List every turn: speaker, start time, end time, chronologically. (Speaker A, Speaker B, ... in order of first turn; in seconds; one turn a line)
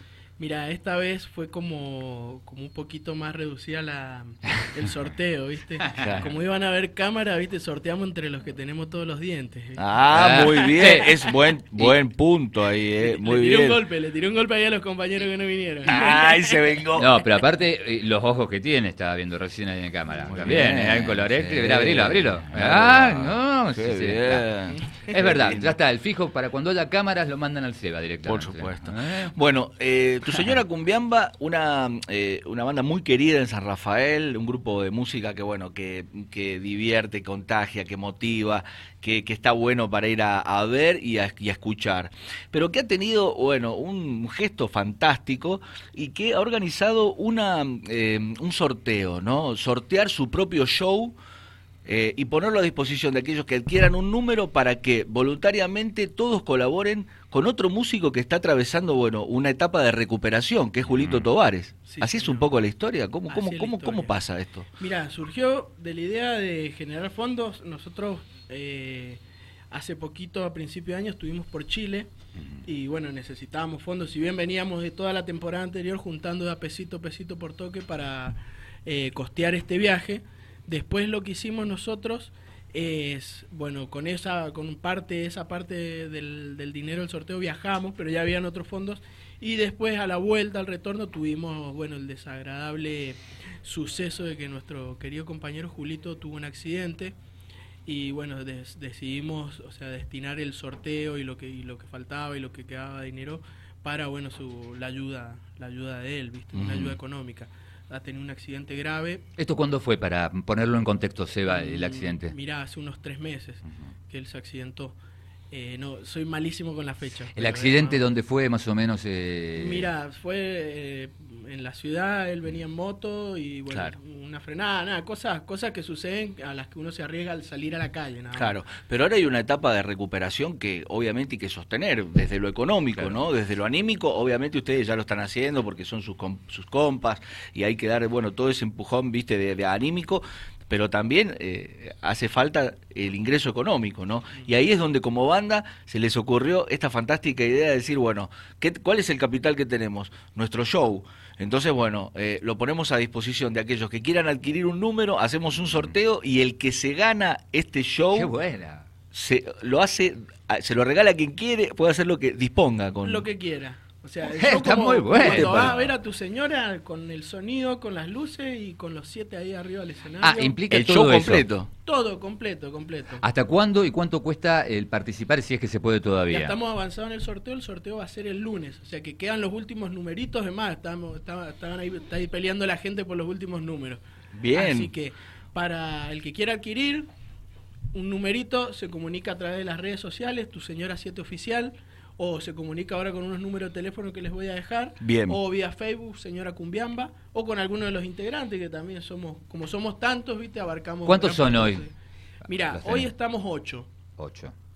Speaker A: 0.4-9.8
Speaker B: 5.9-6.3
Speaker B: 9.8-13.8
Speaker C: 10.1-11.1
Speaker A: 10.4-11.3
Speaker A: 13.0-16.8
Speaker B: 15.8-17.2
Speaker C: 17.0-24.5
Speaker B: 20.3-25.7
Speaker C: 25.1-29.3
Speaker B: 28.2-51.2
Speaker C: 30.3-30.6
Speaker B: 51.8-64.7
Speaker C: 60.9-61.3
Speaker A: 61.8-62.5
Speaker A: 63.3-64.2
Speaker A: 64.8-72.1
Speaker A: 72.6-97.1
Speaker A: 97.8-109.2
Speaker B: 106.5-107.0
Speaker C: 109.4-112.3
Speaker A: 111.5-115.0
Speaker A: 115.5-118.0
Speaker C: 117.3-119.9
Speaker A: 119.5-128.6
Speaker B: 128.3-158.3
Speaker C: 158.1-158.8
Speaker B: 159.1-163.2
Speaker A: 163.0-170.6
Speaker C: 164.2-165.9
Speaker B: 165.2-165.7
Speaker C: 170.2-171.4
Speaker B: 170.7-171.7
Speaker A: 171.8-173.2
Speaker C: 173.2-176.5
Speaker A: 176.3-184.0
Speaker B: 184.3-184.9
Speaker A: 184.5-187.1
Speaker A: 187.9-201.9
Speaker B: 195.0-195.4
Speaker C: 201.1-201.8
Speaker A: 202.5-203.9
Speaker C: 202.6-203.1
Speaker C: 204.2-204.5